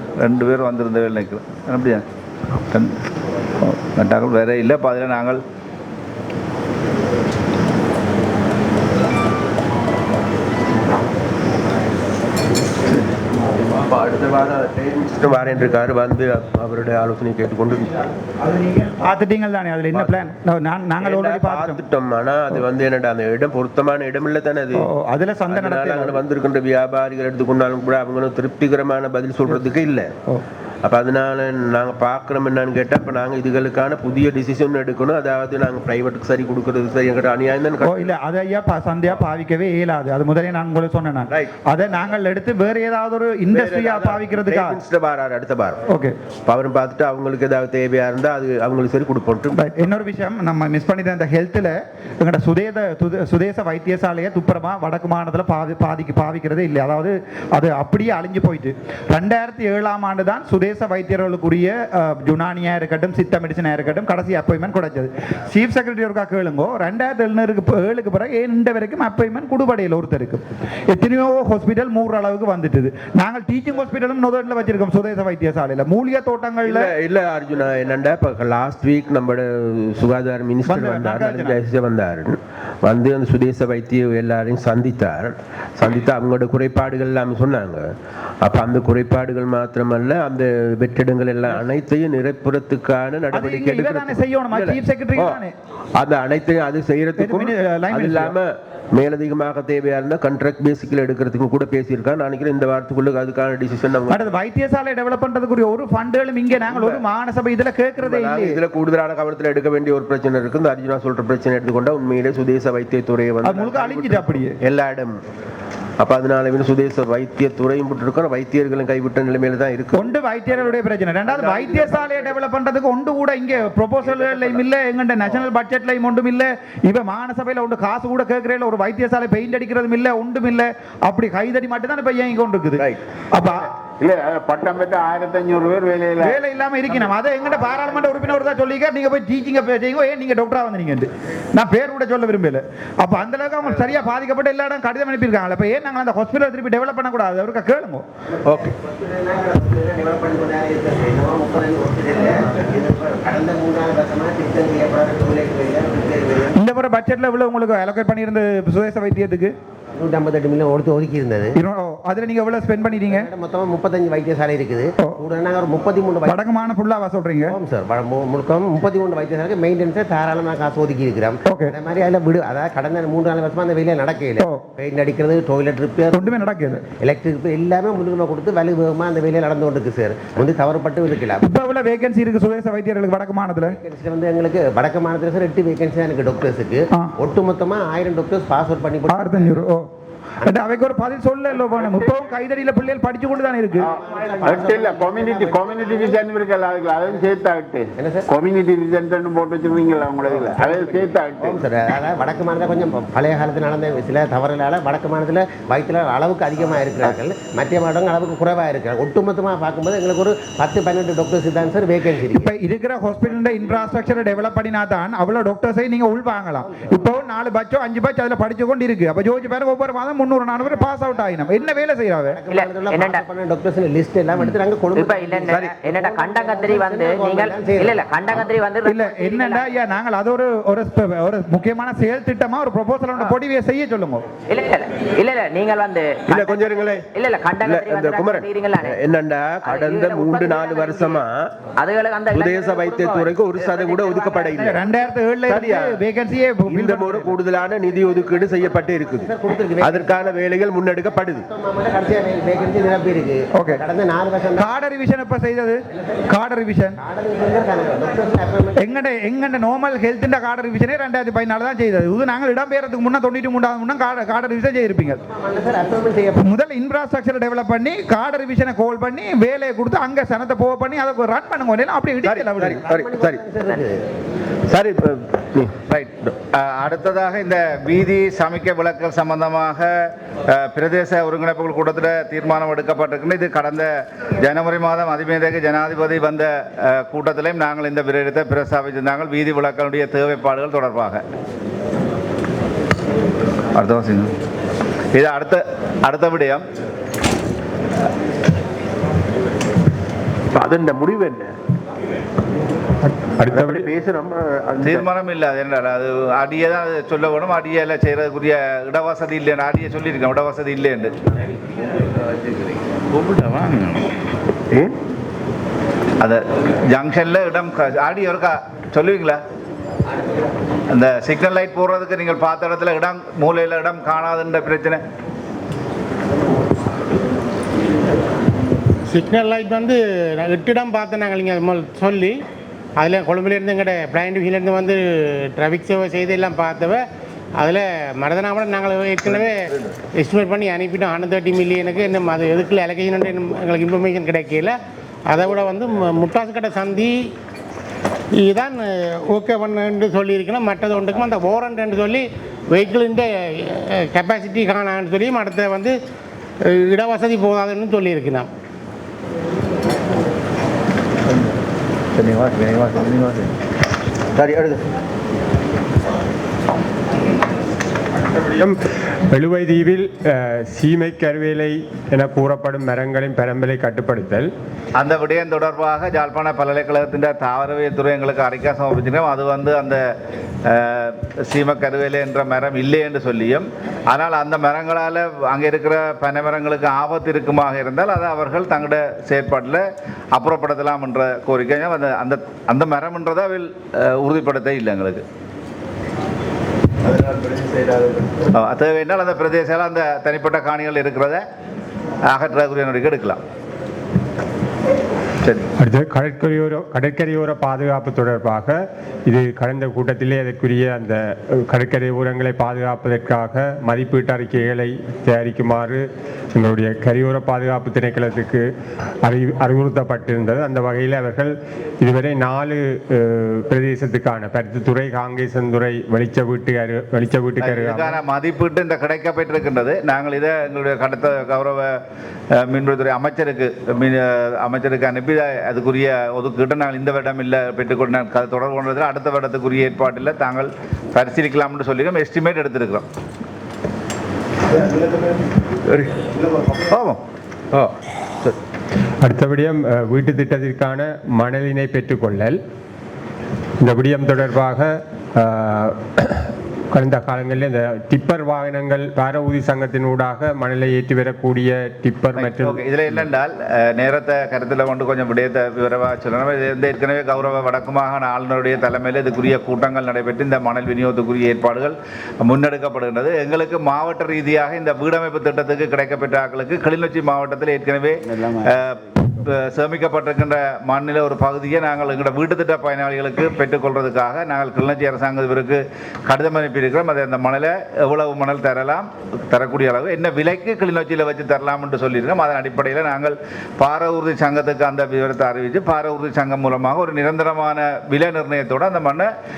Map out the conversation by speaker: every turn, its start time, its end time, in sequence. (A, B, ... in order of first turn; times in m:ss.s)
0:00.2-0:02.0 A
0:03.6-0:05.4 A
0:13.7-0:18.1 B
0:18.4-0:21.8 C
0:21.0-0:24.9 B
0:24.7-0:26.2 C
0:25.5-0:30.1 B
0:30.8-0:38.0 B
0:37.8-0:44.8 C
0:43.5-0:45.8 B
0:45.9-0:46.1 C
0:46.4-0:49.6 B
0:49.5-1:16.9 C
1:16.6-1:27.9 B
1:20.6-1:21.6 C
1:28.4-1:35.4 B
1:33.3-1:35.5 C
1:35.9-1:44.2 B
1:37.2-1:38.3 C
1:44.1-1:48.6 C
1:46.7-1:47.0 B
1:48.0-1:55.2 B
1:53.4-1:54.6 C
1:56.0-2:00.1 B
1:59.9-2:13.6 C
2:01.3-2:02.3 B
2:04.1-2:04.6 B
2:14.0-2:16.3 D
2:16.2-2:28.0 C
2:28.3-2:36.6 E
2:28.4-2:28.7 B
2:36.5-2:39.5 C
2:40.0-2:41.5 E
2:41.5-2:43.3 C
2:43.1-2:46.4 E
2:46.2-2:47.5 C
2:47.5-3:01.4 E
2:51.4-2:51.7 C
2:56.1-2:56.8 C
3:01.4-3:03.8 C
3:03.8-3:09.6 E
3:09.1-3:09.8 C
3:10.4-3:13.9 C
3:13.9-3:16.2 E
3:13.9-3:21.7 D
3:17.0-3:17.2 E
3:18.0-3:18.3 E
3:20.2-3:32.5 E
3:32.3-3:42.4 C
3:42.3-3:48.0 E
3:42.5-3:43.2 F
3:44.4-3:49.8 F
3:45.5-3:45.7 B
3:48.8-3:54.2 C
3:54.5-3:59.0 F
3:56.3-3:57.0 B
3:57.6-4:01.5 B
3:59.6-4:01.2 F
4:01.8-4:04.8 F
4:02.3-4:04.7 B
4:04.6-4:07.3 C
4:05.5-4:06.0 B
4:06.7-4:11.5 B
4:09.2-4:10.3 E
4:11.4-4:14.7 E
4:13.5-4:13.8 C
4:14.6-4:17.0 C
4:17.0-4:18.8 E
4:18.8-4:25.2 C
4:25.3-4:26.4 E
4:26.4-4:32.8 C
4:32.2-4:33.4 B
4:32.8-4:34.0 E
4:34.7-4:35.7 B
4:35.9-4:39.9 A
4:40.5-4:43.9 A
4:44.4-4:51.2 A
4:53.7-4:54.3 A
4:55.1-4:56.6 A
5:00.6-5:01.4 B
5:03.1-5:03.9 G
5:04.8-5:11.1 A
5:16.2-5:19.4 A
5:20.9-5:25.0 A
5:29.1-5:32.4 H
5:33.0-5:37.0 H
5:37.6-5:47.3 H
5:48.4-5:55.9 H
5:56.6-5:58.5 H
6:02.1-6:03.5 A
6:04.4-6:04.8 B
6:09.3-6:14.5 G
6:15.0-6:20.0 A
6:20.7-6:29.8 A
6:30.3-6:35.2 A
6:38.5-6:41.4 A
6:42.3-6:43.4 A
6:45.8-6:56.0 G
6:56.5-6:58.6 G
6:59.2-7:08.2 G
7:07.6-7:11.9 A
7:12.7-7:23.0 A
7:25.9-7:26.3 B
7:26.9-7:27.2 A
7:29.2-7:32.6 G
7:33.8-7:42.8 G
7:42.4-8:19.3 A